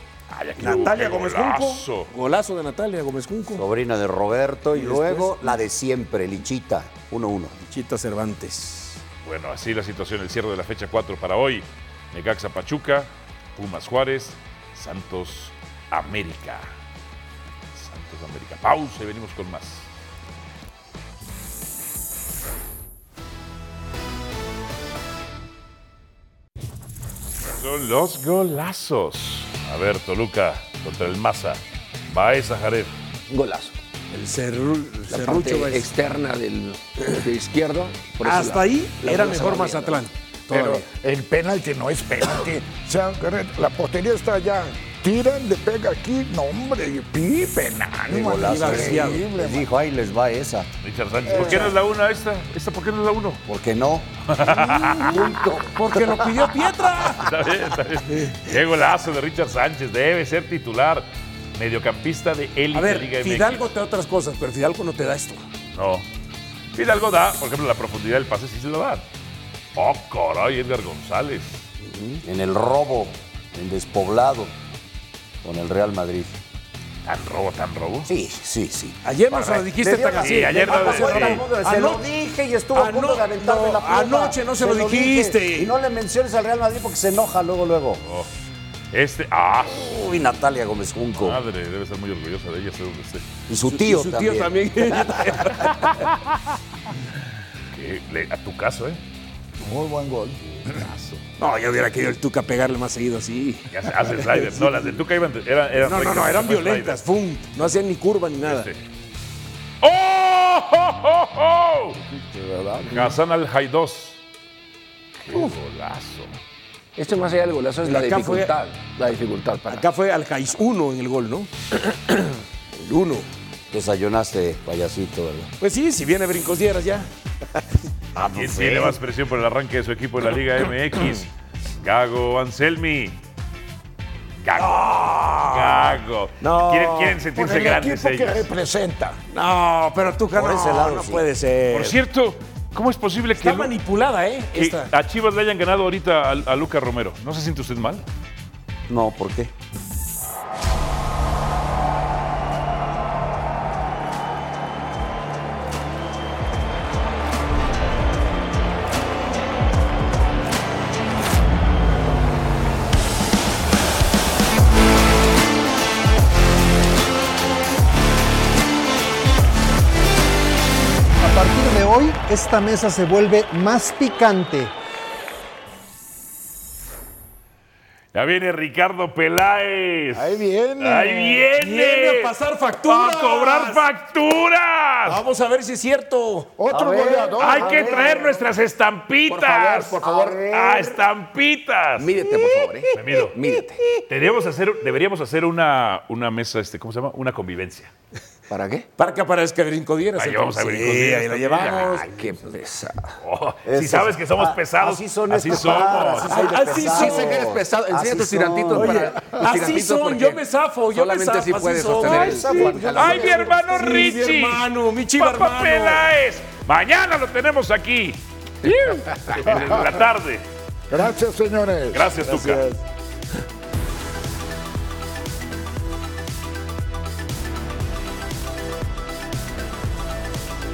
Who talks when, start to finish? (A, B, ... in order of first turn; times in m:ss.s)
0:00.3-0:02.1 A
0:00.6-0:03.6 B
0:03.6-0:07.5 C
0:04.7-0:05.5 B
0:07.6-0:09.0 B
0:09.2-0:16.8 A
0:17.8-0:19.9 A
0:27.6-0:32.9 A
0:33.3-0:33.8 D
0:34.1-0:35.9 B
0:35.1-0:39.9 D
0:38.2-0:40.9 B
0:40.5-0:49.7 E
0:48.1-0:50.7 C
0:48.3-0:49.2 B
0:50.8-0:53.4 A
0:51.3-0:51.8 C
0:51.4-0:51.7 E
0:53.5-0:54.3 C
0:54.3-0:55.2 A
0:54.7-0:57.3 B
0:55.0-0:56.2 C
0:57.1-1:03.7 A
1:02.7-1:05.4 B
1:05.8-1:06.1 A
1:06.7-1:09.0 A
1:09.8-1:11.7 A
1:12.2-1:14.5 C
1:15.4-1:16.4 C
1:17.0-1:18.1 A
1:18.1-1:28.0 C
1:19.0-1:22.1 B
1:20.2-1:21.4 A
1:22.7-1:25.7 B
1:28.9-1:29.9 A
1:29.7-1:31.4 C
1:31.2-1:33.3 A
1:33.5-1:35.4 C
1:33.7-1:36.1 B
1:37.7-1:39.0 A
1:39.6-1:40.4 E
1:40.6-1:41.2 A
1:41.4-1:43.7 B
1:43.7-1:47.0 A
1:44.2-1:44.6 B
1:45.8-1:48.7 B
1:48.4-1:48.8 A
1:49.8-1:52.0 A
1:52.1-1:53.0 E
1:52.9-1:54.2 A
1:55.2-1:56.4 A
1:57.0-1:59.8 D
1:57.8-1:58.5 B
1:59.7-2:03.3 B
2:03.7-2:05.5 C
2:05.6-2:07.6 B
2:08.2-2:09.0 C
2:08.3-2:13.2 A
2:14.4-2:18.5 A
2:14.6-2:17.3 B
2:17.4-2:19.2 E
2:19.3-2:22.0 B
2:20.3-2:21.3 C
2:21.7-2:23.8 A
2:23.4-2:24.9 B
2:24.5-2:28.1 A
2:28.9-2:29.5 C
2:51.2-2:54.7 F
2:58.1-3:02.4 A
3:00.1-3:01.5 E
3:01.5-3:03.9 B
3:02.9-3:05.2 A
3:05.0-3:06.5 B
3:06.6-3:08.4 E
3:06.7-3:08.4 C
3:07.4-3:12.1 A
3:09.3-3:10.4 B
3:10.0-3:11.0 C
3:12.0-3:13.8 D
3:13.0-3:13.4 A
3:14.1-3:17.9 A
3:18.5-3:18.9 D
3:19.0-3:22.1 B
3:20.2-3:22.1 A
3:21.8-3:23.2 D
3:23.2-3:26.6 A
3:23.7-3:29.1 C
3:26.2-3:27.6 B
3:26.7-3:30.4 D
3:28.7-3:36.1 B
3:30.9-3:33.4 D
3:32.0-3:33.4 C
3:33.0-3:34.6 A
3:35.2-3:40.4 A
3:39.3-3:39.6 D
3:40.9-3:42.8 E
3:41.9-3:42.7 A